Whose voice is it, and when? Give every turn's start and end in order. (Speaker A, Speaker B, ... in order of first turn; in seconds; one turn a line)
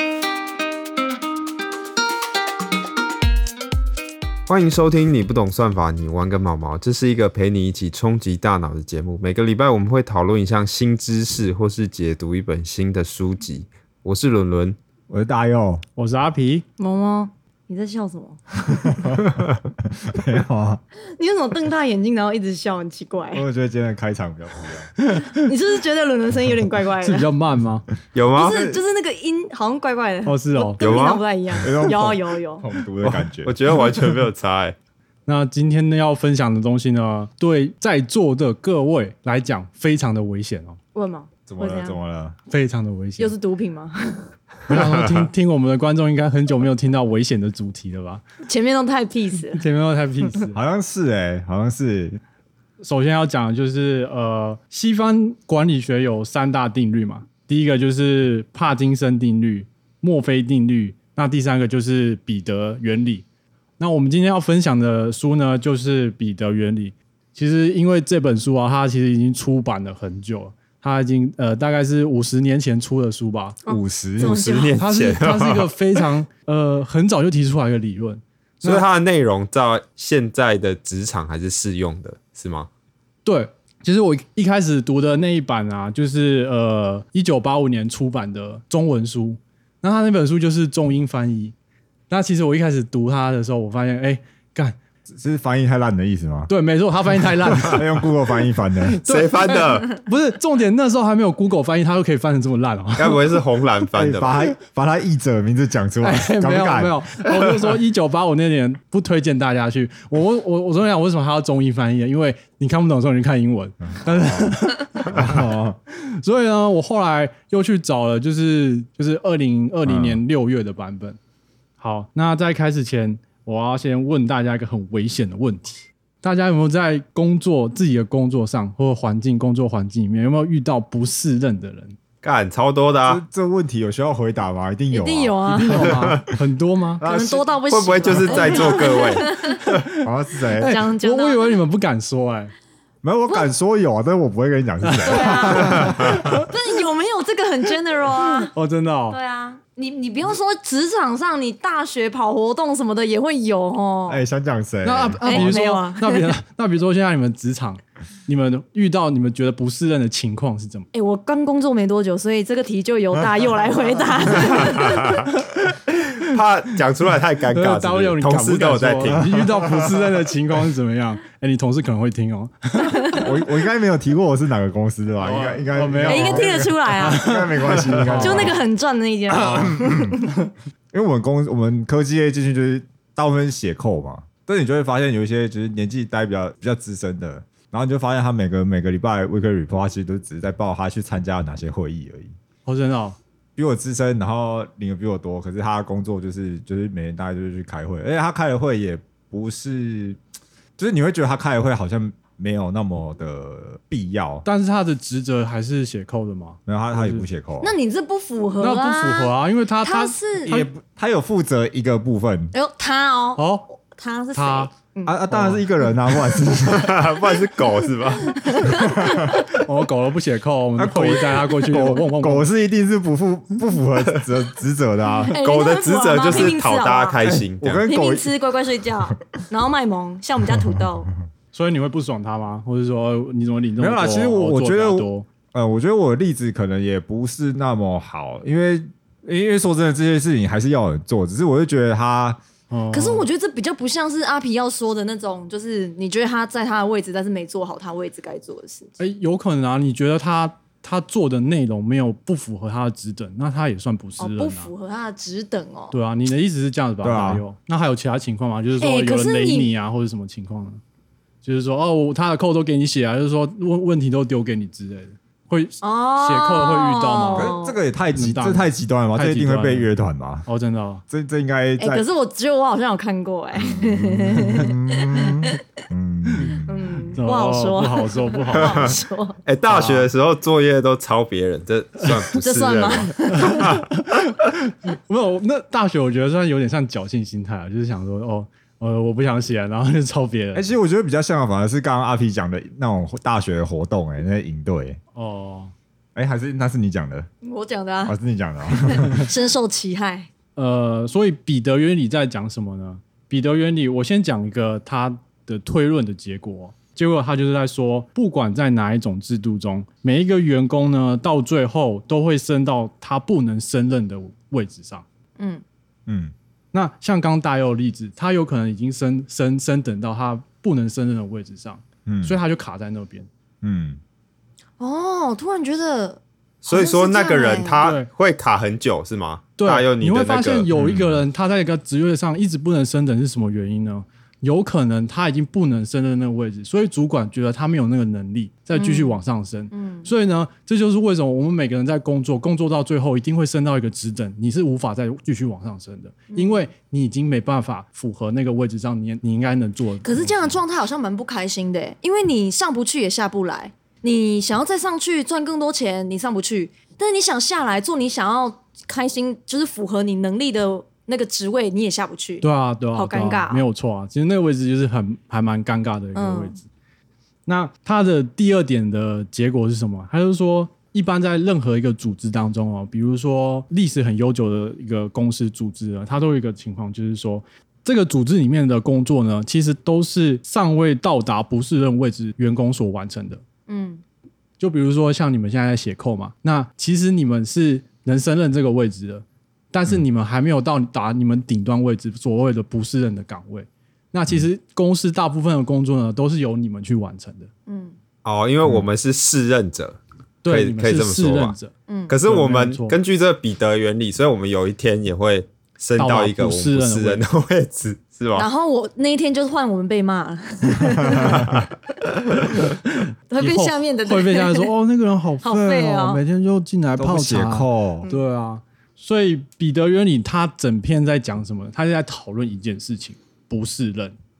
Speaker A: 4.5-14.8
Speaker B: 15.1-15.8
Speaker C: 15.9-16.6
Speaker D: 16.8-18.4
Speaker B: 18.7-20.8
Speaker D: 21.1-23.4
Speaker B: 23.3-24.9
Speaker C: 25.0-25.4
Speaker D: 25.3-27.3
Speaker C: 27.0-27.9
Speaker A: 28.1-28.6
Speaker D: 28.3-32.7
Speaker B: 28.4-28.8
Speaker C: 30.2-30.8
Speaker A: 30.8-31.7
Speaker B: 31.6-34.0
Speaker A: 33.0-34.8
Speaker C: 35.2-40.8
Speaker D: 40.9-42.0
Speaker B: 41.5-42.4
Speaker C: 42.5-43.3
Speaker D: 43.2-44.3
Speaker C: 44.7-48.2
Speaker D: 48.5-49.6
Speaker C: 49.5-50.6
Speaker B: 50.5-52.2
Speaker C: 52.8-63.2
Speaker C: 63.8-73.6
Speaker D: 73.7-74.8
Speaker B: 73.7-74.4
Speaker A: 74.2-75.7
Speaker C: 74.8-78.8
Speaker A: 78.6-82.7
Speaker C: 83.2-91.5
Speaker C: 92.1-94.8
Speaker B: 95.1-96.5
Speaker C: 96.5-98.0
Speaker B: 97.4-99.0
Speaker C: 98.8-103.4
Speaker A: 99.0-100.0
Speaker A: 103.0-104.5
Speaker B: 103.9-107.1
Speaker C: 106.0-121.2
Speaker B: 113.9-114.5
Speaker B: 115.1-115.8
Speaker B: 119.8-120.2
Speaker C: 121.8-131.9
Speaker A: 132.2-133.2
Speaker B: 133.0-136.3
Speaker D: 134.9-135.9
Speaker C: 135.5-137.0
Speaker B: 137.0-137.5
Speaker D: 137.0-139.6
Speaker A: 137.7-139.3
Speaker B: 138.0-138.4
Speaker C: 138.4-142.5
Speaker B: 139.9-140.7
Speaker D: 140.6-141.6
Speaker B: 143.0-146.2
Speaker C: 144.8-146.5
Speaker D: 145.0-148.5
Speaker C: 148.4-149.2
Speaker D: 149.1-154.2
Speaker B: 154.1-155.6
Speaker C: 154.8-160.9
Speaker D: 155.2-156.3
Speaker D: 160.9-165.2
Speaker C: 164.3-166.3
Speaker A: 164.7-165.2
Speaker A: 166.2-169.7
Speaker C: 167.5-173.2
Speaker D: 172.9-173.2
Speaker B: 173.2-178.6
Speaker C: 175.2-178.6
Speaker D: 176.0-177.3
Speaker D: 178.1-180.3
Speaker B: 179.3-180.2
Speaker C: 179.5-180.0
Speaker B: 180.9-192.3
Speaker C: 192.7-193.2
Speaker B: 193.6-200.2
Speaker B: 200.8-204.4
Speaker C: 204.4-207.2
Speaker B: 206.7-207.7
Speaker D: 207.6-210.6
Speaker C: 208.6-210.7
Speaker B: 210.4-212.5
Speaker D: 212.5-215.2
Speaker C: 213.4-213.7
Speaker C: 214.3-214.7
Speaker B: 215.1-217.0
Speaker C: 215.3-215.7
Speaker A: 216.6-218.6
Speaker D: 218.2-219.4
Speaker B: 218.6-219.4
Speaker C: 219.5-222.4
Speaker B: 220.8-225.4
Speaker D: 225.3-227.2
Speaker A: 225.4-227.8
Speaker B: 227.2-228.3
Speaker D: 227.8-231.1
Speaker C: 231.5-235.2
Speaker B: 233.8-242.4
Speaker C: 242.7-243.3
Speaker D: 242.9-248.9
Speaker C: 249.0-254.7
Speaker D: 254.2-255.9
Speaker C: 255.9-260.8
Speaker B: 257.0-257.4
Speaker D: 258.8-259.7
Speaker C: 261.4-267.6
Speaker D: 265.8-267.8
Speaker B: 267.3-270.4
Speaker C: 268.1-269.9
Speaker C: 270.4-271.0
Speaker B: 271.1-272.1
Speaker D: 271.8-275.6
Speaker B: 273.6-277.1
Speaker D: 276.4-279.4
Speaker C: 277.2-278.9
Speaker A: 279.4-283.8
Speaker C: 279.6-280.1
Speaker D: 282.4-283.8
Speaker C: 283.3-290.6
Speaker B: 290.5-295.0
Speaker C: 295.1-295.7
Speaker B: 296.1-297.3
Speaker D: 297.4-300.3
Speaker B: 298.1-299.2
Speaker C: 300.6-315.0
Speaker B: 316.1-316.3
Speaker C: 316.7-323.3
Speaker B: 322.1-322.4
Speaker B: 323.6-324.0
Speaker D: 324.8-327.8
Speaker A: 326.6-330.7
Speaker C: 327.8-328.1
Speaker C: 329.6-350.5
Speaker B: 330.7-331.2
Speaker D: 338.7-340.1
Speaker D: 346.3-346.6
Speaker D: 350.0-363.6
Speaker C: 362.4-366.6
Speaker D: 366.1-366.6
Speaker C: 367.4-383.4
Speaker D: 383.7-384.0
Speaker C: 384.6-397.5
Speaker D: 397.7-397.9
Speaker A: 398.2-401.5
Speaker C: 400.4-403.0
Speaker D: 401.9-402.1
Speaker A: 402.1-408.5
Speaker C: 406.0-407.2
Speaker D: 408.3-411.6
Speaker B: 411.0-411.4
Speaker C: 412.5-424.1
Speaker D: 413.3-414.7
Speaker D: 415.4-416.2
Speaker B: 416.9-418.1